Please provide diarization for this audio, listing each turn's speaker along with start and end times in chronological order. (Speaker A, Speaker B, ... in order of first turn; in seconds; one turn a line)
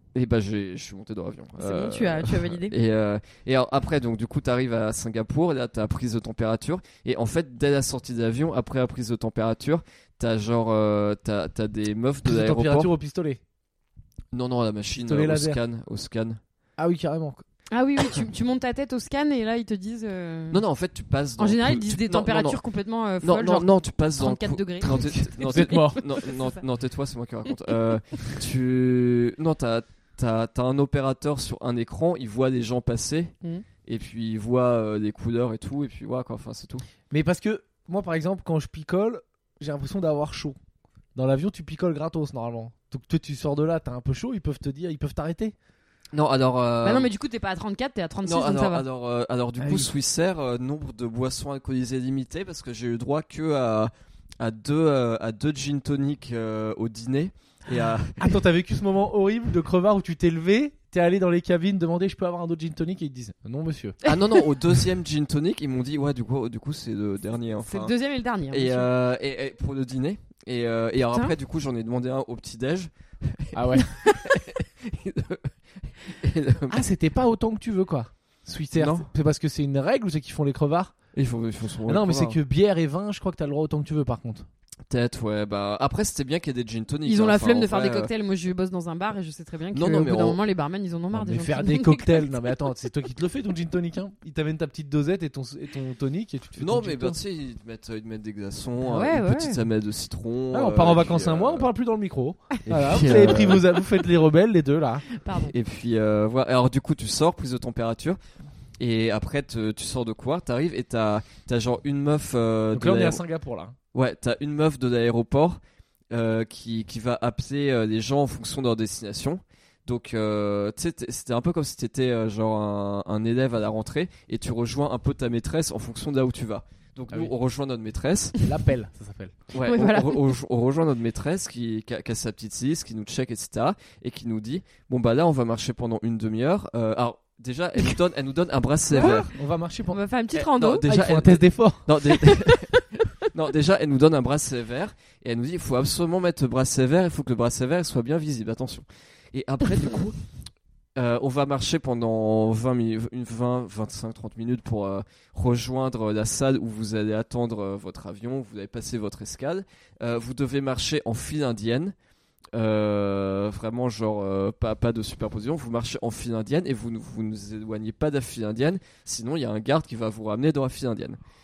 Speaker A: 0.1-12.9
Speaker B: 1.6-2.8
Speaker C: 12.2-13.4
Speaker A: 14.3-16.4
Speaker C: 14.9-15.6
Speaker C: 16.8-17.4
Speaker B: 17.7-20.6
Speaker A: 20.5-22.6
Speaker B: 21.4-26.6
Speaker A: 23.2-33.3
Speaker C: 25.1-26.0
Speaker A: 33.8-36.9
Speaker C: 37.1-40.6
Speaker C: 41.1-45.5
Speaker A: 46.1-47.1
Speaker B: 46.8-48.9
Speaker A: 48.2-58.3
Speaker C: 49.6-49.9
Speaker C: 58.2-64.0
Speaker A: 64.0-67.9
Speaker B: 67.7-68.9
Speaker A: 68.5-76.8
Speaker C: 73.5-74.0
Speaker C: 76.7-81.0
Speaker A: 78.8-79.1
Speaker A: 81.1-82.4
Speaker C: 81.9-84.5
Speaker A: 84.9-88.1
Speaker B: 87.1-92.3
Speaker A: 89.7-90.4
Speaker C: 91.1-97.2
Speaker A: 96.6-101.7
Speaker B: 98.8-99.6
Speaker C: 100.5-105.0
Speaker A: 102.7-103.7
Speaker B: 105.2-105.5
Speaker A: 105.3-108.2
Speaker A: 108.8-113.2
Speaker C: 112.7-113.8
Speaker A: 113.9-115.6
Speaker A: 116.1-128.4
Speaker C: 128.4-129.3
Speaker A: 129.5-139.3
Speaker B: 129.6-130.3
Speaker C: 138.9-140.0
Speaker B: 139.0-139.3
Speaker B: 139.9-140.9
Speaker A: 140.3-150.2
Speaker C: 140.8-142.1
Speaker B: 142.1-142.8
Speaker A: 151.0-161.9
Speaker A: 162.5-171.2